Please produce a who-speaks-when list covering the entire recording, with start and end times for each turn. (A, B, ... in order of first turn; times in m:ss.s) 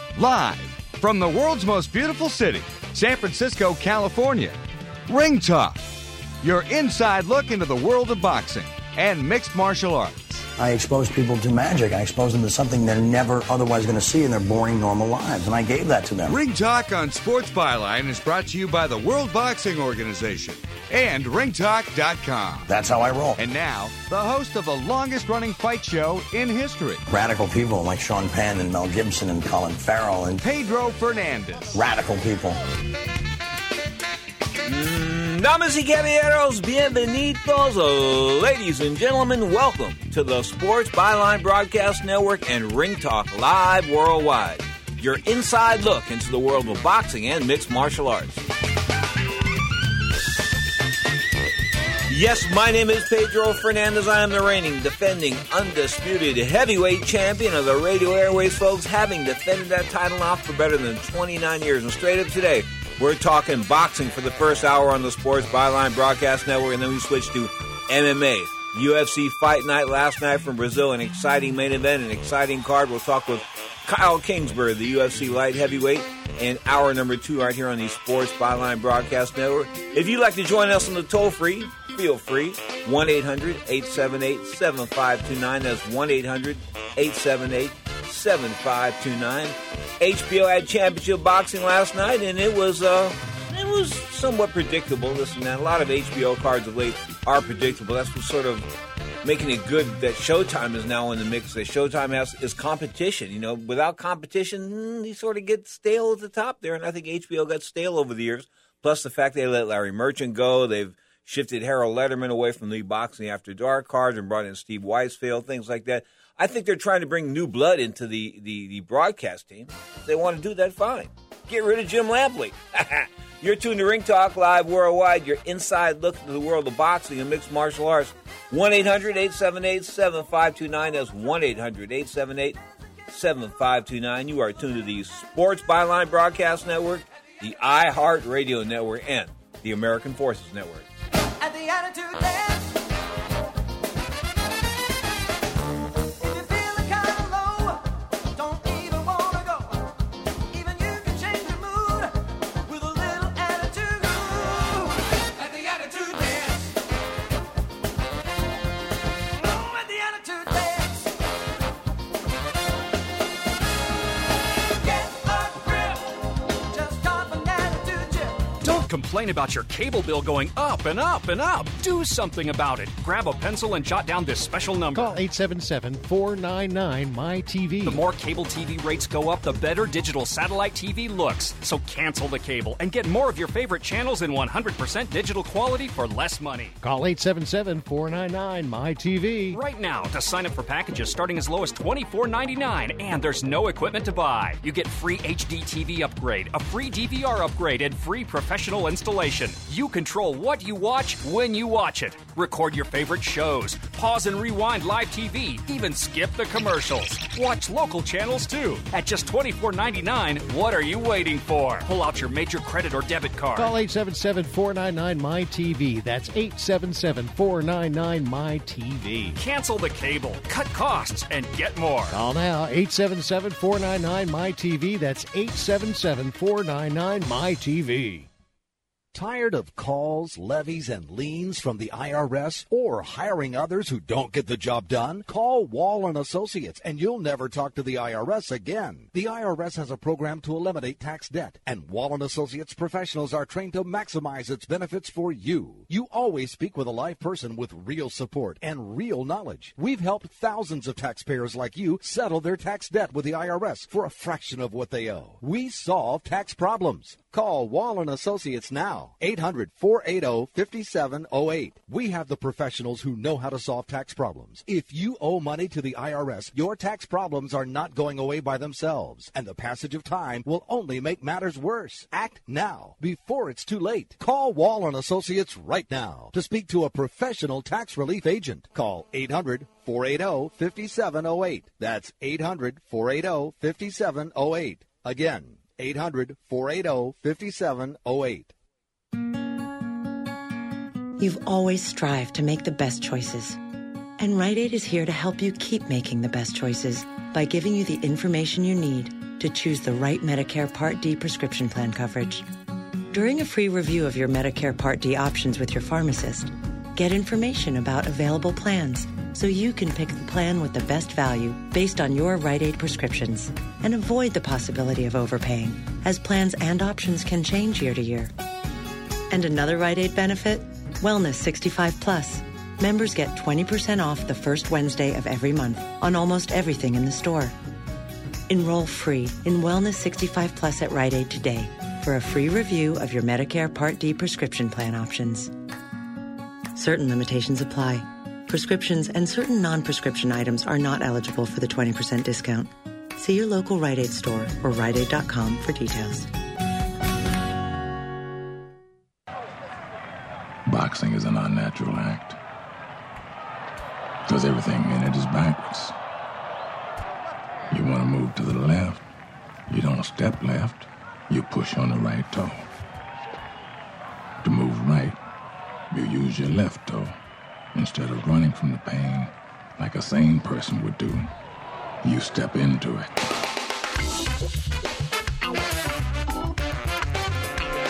0:00.2-0:05.8 A
0:06.4-0:10.5 A
0:10.6-0:16.4 B
0:16.3-0:22.7 A
0:22.7-0:23.4 B
0:23.4-0:27.0 A
0:27.1-0:30.4 B
0:30.4-0:31.8 A
0:31.7-0:32.6 B
0:34.6-0:48.4 C
0:52.1-1:38.7 C
1:39.2-2:20.9 C
2:21.4-2:22.8 D
2:26.2-2:29.8 D
2:30.5-2:32.2 D
2:32.7-2:36.6 D
2:39.4-2:41.1 D
2:44.7-2:46.2 D
2:46.7-2:48.4 D
2:48.6-2:55.2 E
2:54.9-2:58.0 F
2:57.8-3:06.8 E
3:06.8-3:09.6 F
3:09.5-3:33.7 E
3:33.6-3:39.4 F
3:39.4-3:42.2 E
3:42.1-3:48.3 F
3:49.1-4:48.5 G
4:51.2-4:53.6 H
4:54.2-5:02.5 H
5:03.1-5:18.3 H
5:19.3-5:27.6 H
5:28.5-5:35.6 H
5:36.8-5:46.3 H
5:50.7-5:52.4 I
5:54.3-5:56.0 I
5:57.7-5:59.0 I
5:59.7-6:02.7 I
6:04.4-6:05.2 I
6:05.9-6:07.2 I
6:07.7-6:11.3 I
6:12.0-6:13.3 I